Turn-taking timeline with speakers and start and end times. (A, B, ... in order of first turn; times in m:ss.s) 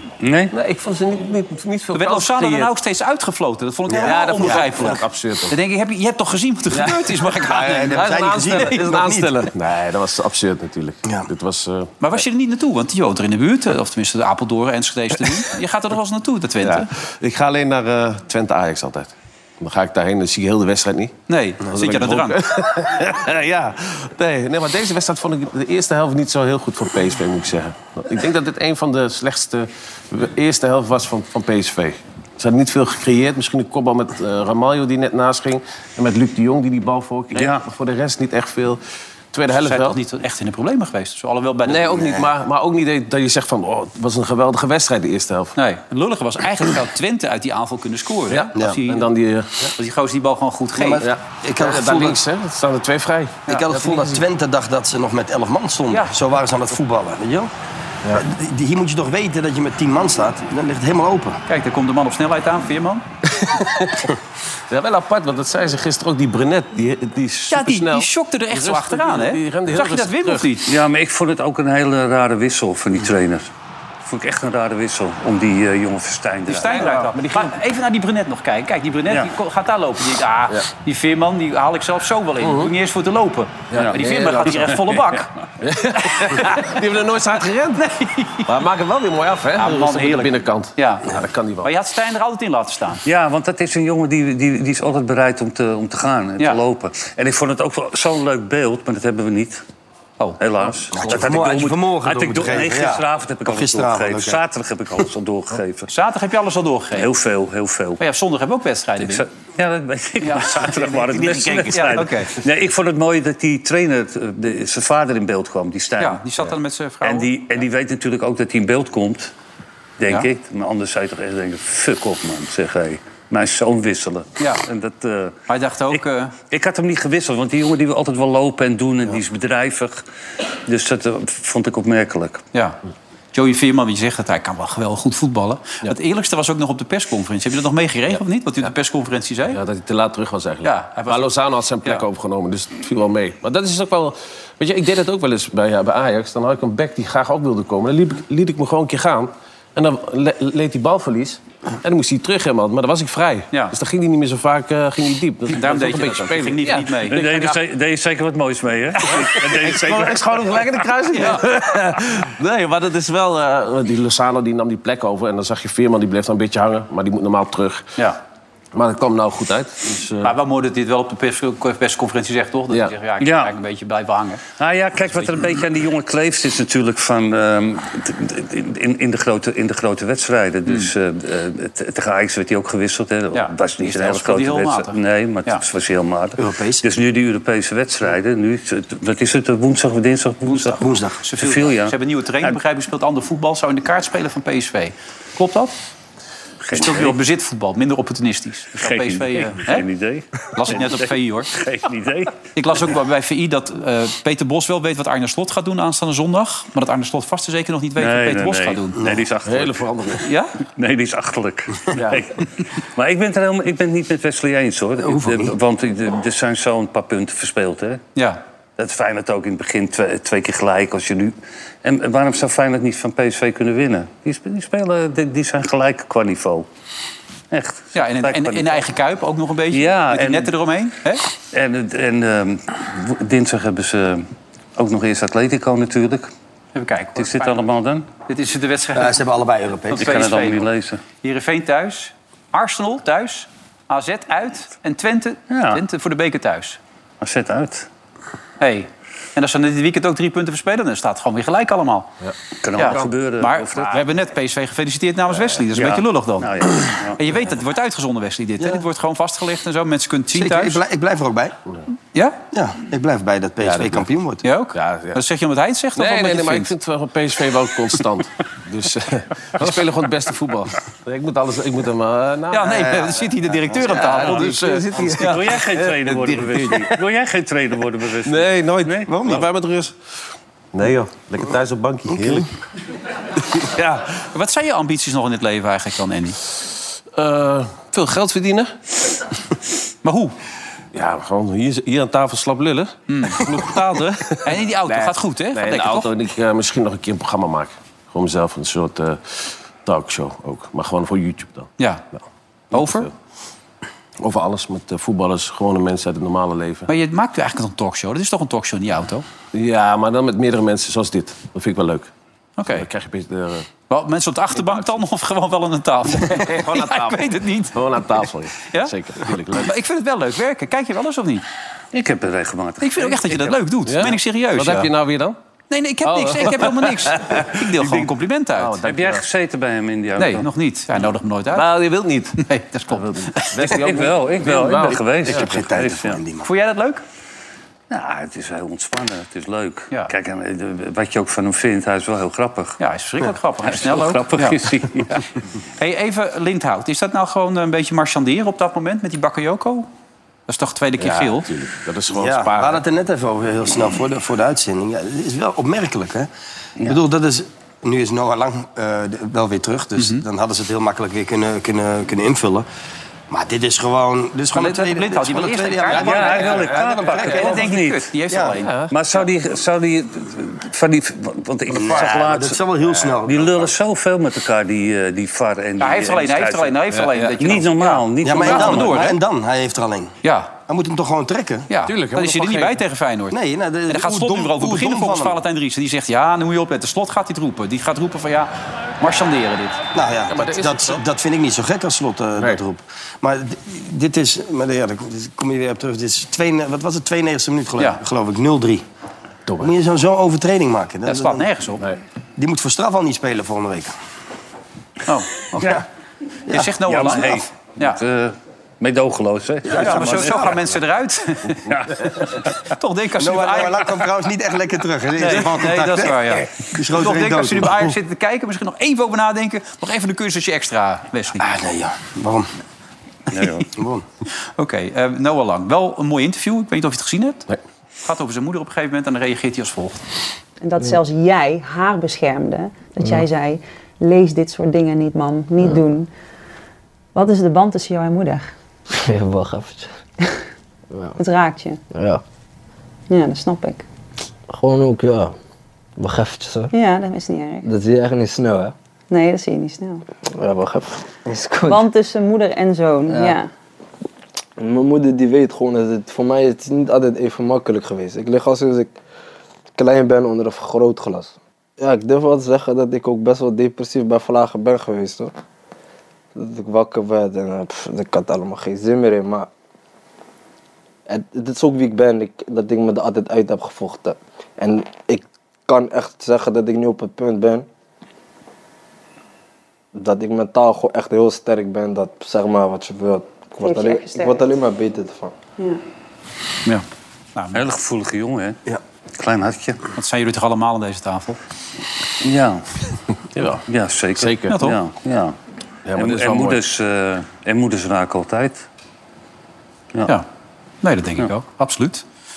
0:00.2-0:00.5 A
0:00.5-0:02.7 B
0:01.9-0:08.8 C
0:03.9-0:04.9 D
0:03.9-0:05.6 B
0:06.7-0:12.0 B
0:07.3-0:09.4 D
0:12.0-0:16.9 C
0:16.6-0:38.8 B
0:21.3-0:22.4 C
0:37.3-0:37.6 A
0:39.3-0:40.0 B
0:39.6-0:42.3 C
0:41.7-0:45.6 B
0:45.6-0:49.1 C
0:48.3-0:49.7 B
0:48.6-0:48.8 D
0:49.8-0:51.0 C
0:50.8-0:52.2 D
0:51.0-0:54.2 B
0:53.5-0:57.5 D
0:58.1-1:01.4 D
1:01.5-1:03.0 C
1:03.3-1:04.1 B
1:04.7-1:10.6 B
1:07.5-1:10.7 C
1:10.7-1:13.5 A
1:14.0-1:17.0 A
1:16.5-1:25.3 C
1:16.7-1:17.5 B
1:22.4-1:22.7 B
1:23.7-1:24.8 B
1:25.6-1:27.8 B
1:26.1-1:26.8 C
1:27.8-1:28.5 C
1:28.5-1:31.7 B
1:29.6-1:33.0 C
1:33.0-1:39.6 A
1:40.4-1:45.9 A
1:40.9-1:44.4 D
1:45.9-1:47.1 C
1:47.0-1:48.0 A
1:48.0-1:49.2 C
1:49.0-1:59.3 A
1:50.2-1:51.0 C
1:50.8-1:52.1 B
1:51.7-1:52.4 C
1:56.0-1:57.3 C
2:00.0-2:05.4 A
2:05.5-2:06.4 C
2:06.5-2:10.0 A
2:10.7-2:12.4 A
2:13.3-2:19.6 C
2:19.5-2:37.6 B
2:20.6-2:22.0 C
2:35.5-2:37.4 C
2:37.1-2:40.7 A
2:39.0-2:47.9 B
2:41.1-2:41.4 C
2:48.7-2:50.3 B
2:50.2-2:54.4 C
2:53.2-2:53.5 A
2:54.6-3:10.9 A
3:03.3-3:05.6 C
3:06.4-3:06.8 D
3:10.5-3:15.8 C
3:10.8-3:11.2 D
3:11.4-3:12.6 A
3:16.6-3:17.2 A
3:16.7-3:19.8 C
3:18.8-3:22.4 A
3:20.5-3:21.5 C
3:22.6-3:29.0 C
3:28.0-3:29.9 A
3:29.0-3:29.2 D
3:29.4-3:30.2 B
3:30.2-3:30.5 C
3:30.8-3:38.0 A
3:31.9-3:32.2 B
3:38.8-3:46.7 A
3:47.5-3:48.9 A
3:47.9-3:51.2 C
3:49.7-3:50.5 A
3:51.5-3:56.3 A
3:56.8-3:57.5 C
3:57.2-3:58.1 A
3:58.3-3:59.2 C
3:58.9-4:00.2 D
3:59.9-4:00.7 C
4:00.0-4:01.0 A
4:01.2-4:06.8 C
4:05.5-4:05.8 A
4:07.2-4:07.9 A
4:08.6-4:12.1 C
4:12.6-4:14.0 A
4:12.8-4:16.5 C
4:15.7-4:17.2 A
4:17.2-4:20.8 C
4:20.3-4:21.6 D
4:22.5-4:24.4 D
4:23.6-4:24.0 B
4:24.4-4:26.7 C
4:24.7-4:25.2 B
4:26.0-4:33.1 B
4:32.5-4:35.4 C
4:32.8-4:34.4 D
4:33.8-4:37.0 B
4:35.0-4:39.2 A
4:38.2-4:40.0 B
4:39.1-4:39.5 D
4:40.7-4:42.5 B
4:42.1-4:42.4 D
4:43.4-4:43.7 B
4:43.8-4:46.4 C
4:47.1-4:48.7 B
4:50.0-4:50.4 C
4:50.9-5:01.7 B
4:53.1-4:56.1 C
5:01.8-5:02.0 C
5:02.7-5:03.1 C
5:02.7-5:03.1 B
5:04.2-5:06.9 B
5:06.9-5:09.3 C
5:09.5-5:12.1 B
5:12.6-5:12.9 C
5:12.7-5:13.7 B
5:13.9-5:17.8 C
5:14.6-5:15.0 B
5:16.1-5:19.7 B
5:19.6-5:21.4 C
5:21.9-5:23.6 A
5:22.8-5:24.9 C
5:23.9-5:25.4 B
5:25.7-5:28.8 C
5:26.0-5:29.3 B
5:28.8-5:30.5 A
5:30.2-5:31.8 C
5:31.5-5:32.4 B
5:32.4-5:33.6 C
5:32.9-5:35.5 B
5:33.6-5:36.2 A
5:35.2-5:36.5 D
5:36.4-5:37.0 C
5:37.9-5:42.8 A
5:42.8-5:45.2 C
5:43.7-5:45.2 A
5:45.8-5:49.9 C
5:50.5-5:51.5 C
5:51.0-5:52.8 B
5:52.1-5:56.3 D
5:56.8-6:02.7 D
6:00.0-6:00.2 C
6:03.3-6:07.7 D
6:04.5-6:06.6 C
6:05.9-6:08.0 A
6:07.2-6:09.2 C
6:08.3-6:08.6 D
6:08.6-6:08.9 B
6:08.9-6:19.0 A
6:11.7-6:13.7 D
6:15.8-6:19.2 C
6:16.9-6:17.3 B
6:18.2-6:21.7 D
6:20.2-6:20.5 C
6:21.7-6:23.4 C
6:21.9-6:22.8 B
6:23.3-6:25.4 D
6:23.9-6:29.8 C
6:29.9-6:38.8 D
6:30.3-6:31.0 B
6:39.5-6:39.7 B
6:39.6-6:41.5 D
6:41.0-6:41.8 C
6:42.4-6:44.0 D
6:45.1-6:45.8 C
6:46.5-6:48.0 C
6:46.9-6:50.6 A
6:49.7-6:50.6 D
6:49.7-6:51.6 C
6:51.7-6:52.1 A
6:52.6-6:54.0 C
6:53.2-6:58.0 D
6:55.2-7:01.5 C
7:01.4-7:02.5 D
7:03.3-7:03.7 A
7:03.7-7:04.0 D
7:04.6-7:07.5 C
7:08.0-7:10.0 C
7:10.6-7:16.1 E
7:17.2-7:18.5 E
7:19.0-7:20.0 F
7:20.9-7:21.2 F
7:21.2-7:21.8 E
7:21.9-7:22.2 F
7:23.1-7:23.8 E
7:24.5-7:25.4 F
7:26.0-7:26.7 F
7:26.7-7:27.7 E
7:27.6-7:28.7 F
7:29.1-7:30.0 E
7:30.4-7:31.9 F
7:31.6-7:33.5 E
7:33.1-7:33.4 F
7:34.6-7:38.9 F
7:39.8-7:45.3 F
7:46.4-7:49.5 F
7:51.1-7:57.7 F
7:59.9-8:05.4 F
8:03.6-8:04.5 E
8:07.4-8:07.6 C
8:07.5-8:08.6 A
8:09.2-8:09.8 A
8:10.0-8:11.4 C
8:12.2-8:12.7 A
8:13.4-8:13.6 B
8:13.7-8:15.4 A
8:14.2-8:14.6 B
8:14.5-8:14.8 C
8:15.9-8:16.6 B
8:16.0-8:18.7 A
8:20.8-8:22.0 C